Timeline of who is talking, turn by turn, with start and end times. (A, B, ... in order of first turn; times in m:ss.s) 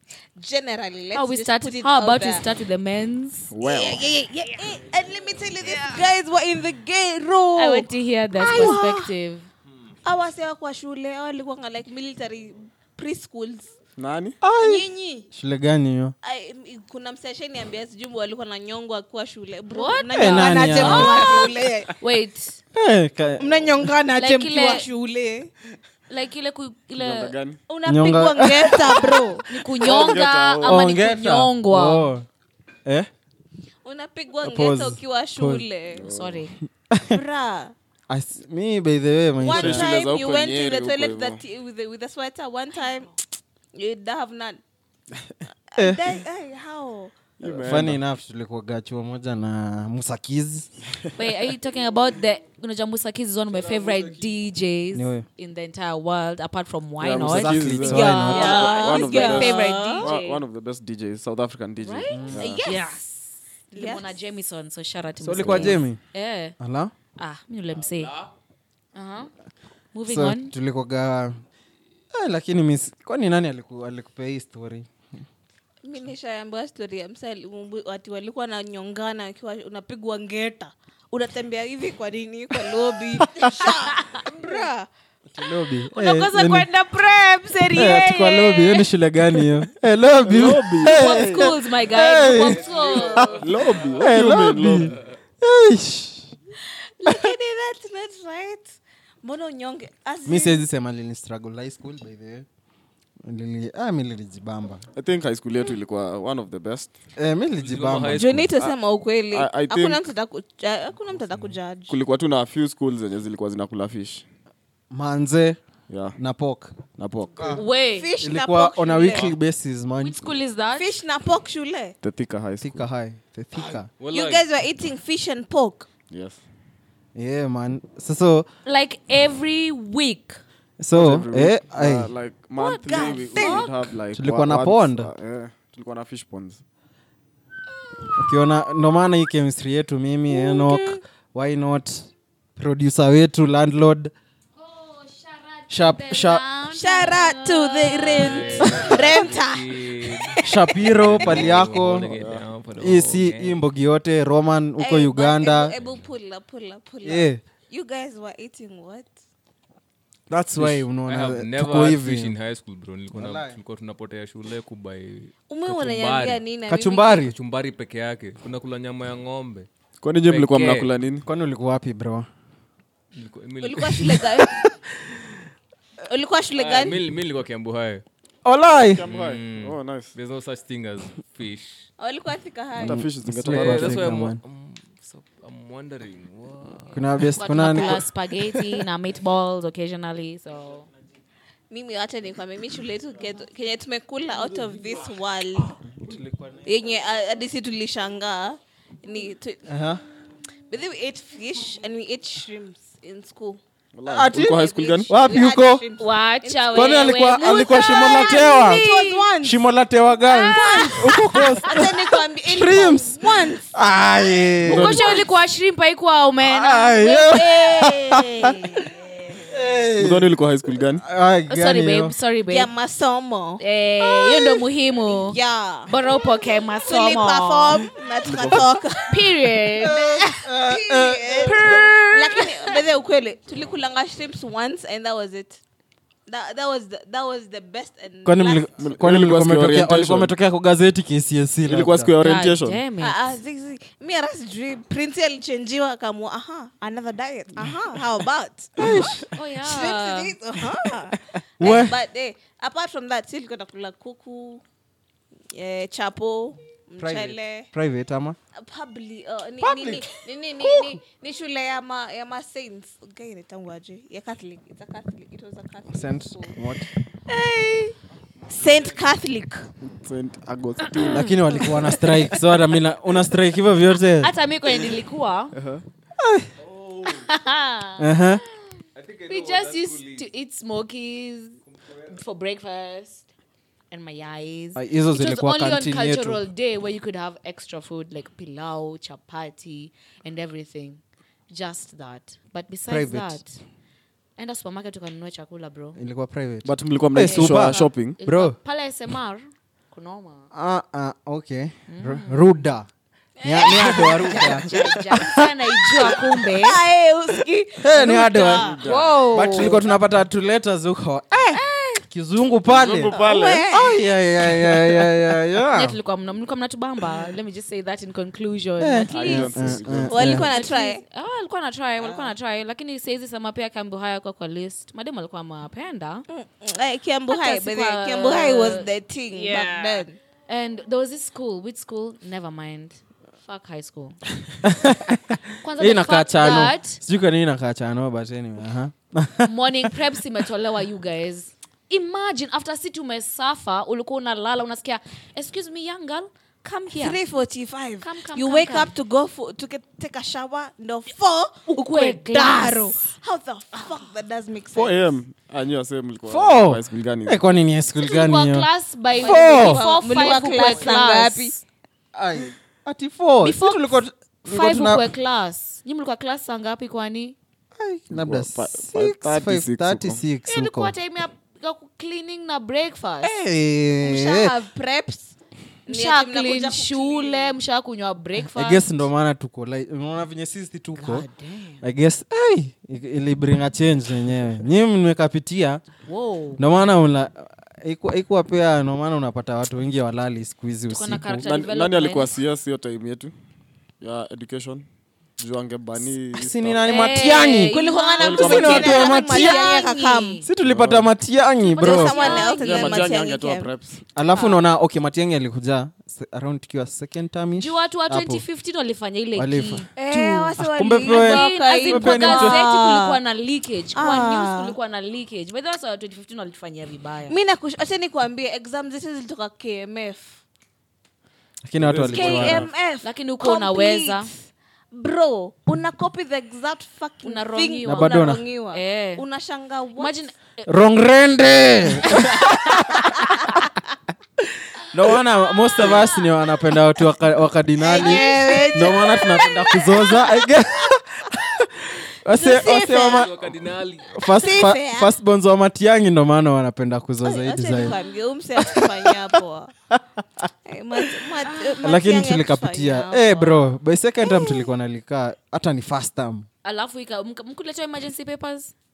0:00.4-0:02.4 A
0:01.1-0:03.5 B
0:03.5-0:04.1 C
0:03.6-0:09.1 A
0:07.6-0:09.5 B
0:08.5-0:08.8 D
0:10.0-0:13.7 A
0:14.0-0:14.4 C
0:14.4-0:16.1 D
0:14.6-0:15.3 A
0:16.2-0:21.9 A
0:19.7-0:21.4 B
0:20.1-0:21.4 D
0:22.0-0:22.6 B
0:22.8-0:23.8 D
0:23.4-0:25.5 A
0:24.2-0:24.9 B
0:26.1-0:27.3 B
0:27.0-0:27.6 C
0:27.7-0:29.5 A
0:27.8-0:29.2 D
0:29.0-0:32.1 B
0:29.8-0:30.9 C
0:30.6-0:32.3 D
0:33.8-0:36.1 A
0:34.4-0:35.6 D
0:35.9-0:36.5 C
0:36.1-0:36.6 B
0:36.9-0:37.2 D
0:37.1-0:37.8 A
0:38.1-0:39.9 D
0:39.4-0:43.2 A
0:39.4-0:41.4 C
0:43.7-0:44.6 A
0:45.7-0:47.2 A
0:45.8-0:46.2 D
0:47.4-0:48.0 C
0:47.4-0:50.7 D
0:51.2-1:00.4 B
0:53.5-0:54.3 E
0:54.9-0:55.3 D
0:57.0-1:02.6 C
0:57.2-0:58.6 D
0:57.9-1:00.1 A
1:01.8-1:06.6 B
1:02.1-1:02.5 D
1:02.4-1:02.9 A
1:03.7-1:04.1 A
1:05.2-1:06.0 D
1:05.4-1:05.8 C
1:06.6-1:06.9 D
1:07.2-1:08.2 B
1:07.8-1:08.2 E
1:09.0-1:09.3 B
1:09.9-1:10.6 B
1:10.1-1:11.4 D
1:12.1-1:14.9 D
1:15.8-1:24.9 A
1:23.2-1:23.7 D
1:23.9-1:24.3 B
1:25.3-1:26.7 D
1:25.9-1:28.9 B
1:27.7-1:32.6 D
1:30.2-1:31.4 C
1:30.8-1:33.4 B
1:32.3-1:34.0 E
1:32.5-1:33.3 A
1:33.4-1:35.0 C
1:34.0-1:36.3 D
1:37.0-1:40.6 A
1:40.3-1:42.5 D
1:43.2-1:44.8 D
1:45.0-1:46.9 C
1:47.2-1:48.5 D
1:47.6-1:48.5 E
1:48.1-1:52.0 A
1:49.3-1:50.0 C
1:51.9-1:54.2 C
1:54.9-1:55.6 D
1:55.9-1:56.2 C
1:56.2-1:56.8 D
1:56.9-1:57.6 C
1:57.4-1:57.6 D
1:57.5-1:58.1 B
1:57.9-1:59.3 A
1:58.2-2:00.2 D
2:00.0-2:01.0 B
2:00.8-2:02.0 A
2:02.0-2:02.9 C
2:02.6-2:03.9 D
2:04.0-2:04.5 E
2:04.1-2:05.9 A
2:06.1-2:06.4 C
2:07.2-2:08.5 D
2:08.7-2:10.4 B
2:10.8-2:12.1 D
2:11.0-2:16.6 C
2:12.6-2:13.7 A
2:12.9-2:13.7 B
2:14.1-2:15.1 D
2:18.2-2:24.1 D
2:20.5-2:20.9 A
2:24.6-2:29.0 B
2:25.7-2:26.4 D
2:26.7-2:30.4 A
2:28.2-2:33.6 E
2:30.4-2:32.1 D
2:31.2-2:32.5 C
2:32.8-2:35.7 D
2:34.8-2:39.1 A
2:35.8-2:36.1 E
2:37.0-2:37.4 D
2:40.3-2:42.4 D
2:40.6-2:46.4 E
2:43.1-2:43.6 D
2:45.5-2:47.3 A
2:46.7-2:47.3 D
2:47.3-2:49.7 E
2:50.0-2:51.3 C
2:50.3-2:51.0 E
2:51.2-2:52.3 D
2:53.1-2:54.4 E
2:53.6-2:54.7 A
2:56.0-2:57.0 A
2:56.6-2:58.0 E
2:56.6-2:56.9 C
2:58.4-2:59.0 D
2:58.7-3:00.1 C
2:59.1-3:01.9 E
3:02.0-3:03.0 A
3:02.8-3:04.1 C
3:02.8-3:04.4 D
3:03.4-3:07.2 E
3:06.9-3:08.1 D
3:07.4-3:10.9 B
3:11.7-3:15.8 A
3:16.0-3:16.7 D
3:16.6-3:19.7 A
3:19.7-3:20.0 D
3:20.7-3:23.6 A
3:23.9-3:25.1 C
3:24.1-3:25.8 D
3:24.6-3:29.6 A
3:26.0-3:29.2 B
3:26.7-3:28.9 D
3:29.4-3:35.0 D
3:30.3-3:33.7 A
3:30.3-3:31.5 B
3:34.6-3:35.2 C
3:34.7-3:37.8 B
3:36.5-3:38.5 D
3:37.2-3:39.5 A
3:39.5-3:40.3 D
3:40.0-3:41.0 C
3:41.0-3:42.2 D
3:41.5-3:42.7 B
3:42.5-3:46.0 A
3:43.6-3:45.4 B
3:45.9-3:47.8 B
3:46.8-3:49.2 A
3:48.3-3:48.6 C
3:48.3-3:48.6 D
3:49.1-3:50.3 B
3:49.8-3:52.0 D
3:49.8-3:55.6 A
3:51.5-3:52.6 B
3:56.3-3:58.7 A
3:58.2-4:02.1 D
3:58.8-4:00.3 C
4:01.7-4:02.8 C
4:02.2-4:03.4 B
4:03.0-4:14.6 A
4:08.8-4:09.3 D
4:09.3-4:10.3 B
4:11.1-4:12.0 D
4:15.5-4:17.7 A
4:17.0-4:18.4 D
4:18.6-4:26.6 A
4:19.6-4:20.1 D
4:20.6-4:21.0 D
4:25.9-4:26.9 D
4:27.3-4:28.0 A
4:28.5-4:29.2 E
4:28.5-4:29.7 A
4:29.8-4:31.3 C
4:31.0-4:32.4 B
4:31.1-4:34.3 D
4:34.2-4:35.6 B
4:35.5-4:35.8 C
4:36.2-4:36.5 D
4:36.6-4:37.3 E
4:37.2-4:38.6 B
4:38.0-4:38.4 D
4:39.0-4:40.3 E
4:39.3-4:43.3 B
4:41.7-4:42.2 E
4:43.9-4:53.6 B
4:44.8-4:46.4 D
4:52.9-4:53.4 D
4:54.4-4:56.0 B
4:56.0-4:58.6 D
4:56.6-4:58.2 C
4:57.2-5:00.5 B
5:00.5-5:02.9 D
5:01.9-5:02.5 B
5:03.4-5:05.3 A
5:03.4-5:06.1 D
5:03.6-5:06.8 B
5:05.9-5:09.0 A
5:07.8-5:08.7 D
5:08.3-5:09.1 C
5:08.8-5:09.8 B
5:09.3-5:13.1 D
5:09.5-5:10.0 A
5:12.7-5:13.7 C
5:13.1-5:14.0 A
5:13.7-5:16.0 D
5:15.7-5:26.3 B
5:18.8-5:20.5 D
5:19.1-5:20.3 C
5:20.1-5:21.0 A
5:22.0-5:22.3 D
5:26.3-5:30.2 A
5:27.3-5:34.2 B
5:34.6-5:39.9 D
5:35.6-5:37.0 B
5:39.4-5:47.2 B
5:46.9-5:55.2 A
5:48.0-5:48.9 B
5:51.7-5:53.0 B
5:54.7-5:57.4 C
5:56.3-5:58.7 D
5:58.0-6:01.6 B
5:59.2-6:01.6 A
5:59.2-5:59.9 D
6:00.7-6:01.1 D
6:02.2-6:05.1 D
6:03.4-6:07.4 B
6:07.8-6:11.0 D
6:08.1-6:10.2 C
6:10.5-6:13.3 B
6:13.2-6:14.5 D
6:14.0-6:15.4 A
6:15.9-6:17.6 A
6:15.9-6:19.0 B
6:18.4-6:21.3 D
6:21.0-6:21.8 B
6:21.8-6:25.8 D
6:26.1-6:26.6 B
6:26.6-6:31.5 D
6:30.9-6:32.3 B
6:31.4-6:33.3 C
6:34.0-6:34.8 C
6:35.4-6:36.8 C
6:36.3-6:37.7 D
6:36.8-6:40.5 B
6:37.7-6:40.4 A
6:38.2-6:39.1 C
6:38.3-6:39.6 D
6:40.4-6:42.2 D
6:40.6-6:41.1 C
6:41.6-6:43.1 B
6:41.8-6:43.7 A
6:42.4-6:44.0 C
6:44.2-6:48.4 D
6:44.3-6:44.6 B
6:47.6-6:57.4 B
6:49.4-6:52.6 D
6:50.0-6:53.2 A
6:54.0-6:54.8 A
6:57.3-7:00.4 A
7:01.6-7:02.7 D
7:01.8-7:02.7 C
7:02.1-7:04.4 A
7:03.0-7:04.3 B
7:04.9-7:10.2 A
7:07.2-7:09.2 B
7:07.8-7:08.4 D
7:10.0-7:10.8 B
7:10.7-7:13.5 D
7:12.0-7:13.5 B
7:14.9-7:23.3 D
7:17.8-7:20.4 A
7:17.9-7:19.0 B
7:22.3-7:23.3 A
7:23.1-7:24.4 E
7:24.1-7:28.0 D
7:24.4-7:25.1 A
7:27.2-7:29.7 A
7:28.6-7:29.4 D
7:29.9-7:30.4 D
7:30.7-7:33.6 A
7:31.5-7:31.8 B
7:31.8-7:36.5 D
7:34.3-7:34.7 A
7:36.6-7:38.7 B